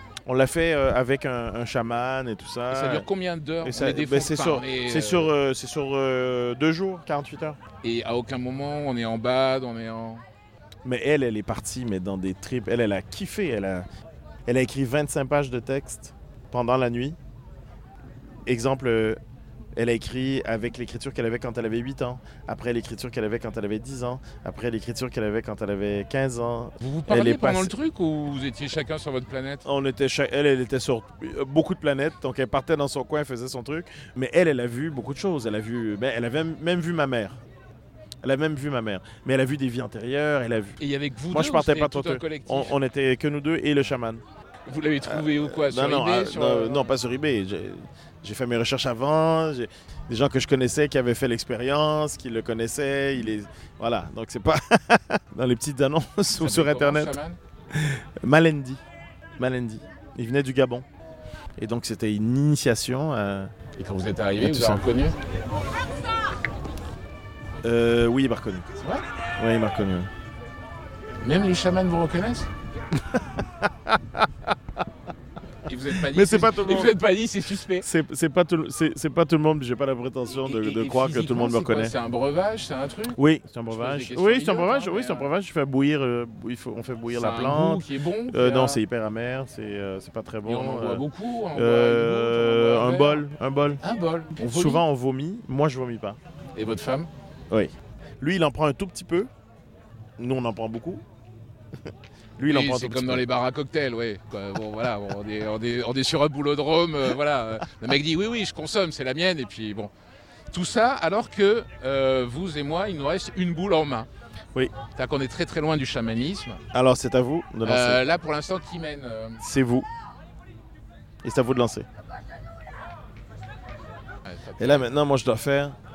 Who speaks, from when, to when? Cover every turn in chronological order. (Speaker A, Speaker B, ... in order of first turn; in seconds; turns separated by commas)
Speaker A: 0.2-3.1, Speaker B: 2.7-5.3, Speaker A: 3.6-7.6, Speaker B: 7.8-10.2, Speaker A: 10.8-13.9, Speaker A: 14.4-17.2, Speaker A: 18.4-19.2, Speaker A: 19.7-27.7, Speaker B: 26.8-29.6, Speaker A: 29.6-37.4, Speaker A: 38.2-44.2, Speaker B: 40.8-42.7, Speaker B: 44.7-46.8, Speaker A: 45.0-57.2, Speaker B: 56.4-57.4, Speaker A: 57.7-58.8, Speaker A: 59.4-60.8, Speaker A: 61.6-63.5, Speaker B: 63.8-65.2, Speaker A: 64.4-64.9, Speaker A: 67.6-68.7, Speaker A: 69.4-70.1, Speaker B: 71.2-72.5, Speaker A: 73.0-74.3, Speaker B: 75.7-77.9, Speaker A: 75.9-77.0, Speaker A: 77.8-82.0, Speaker B: 80.4-83.2, Speaker A: 83.2-93.8, Speaker B: 83.7-85.3, Speaker B: 87.1-88.8, Speaker B: 90.4-93.2, Speaker B: 93.8-94.8, Speaker A: 94.3-96.2, Speaker B: 96.5-97.1, Speaker A: 97.5-99.3, Speaker A: 100.2-101.0, Speaker A: 102.4-103.3, Speaker B: 102.4-109.9, Speaker B: 110.5-114.1, Speaker B: 114.9-116.6, Speaker A: 116.7-118.0, Speaker B: 117.6-119.4, Speaker A: 119.4-119.9, Speaker A: 121.2-121.9, Speaker B: 124.2-124.9, Speaker A: 124.6-125.8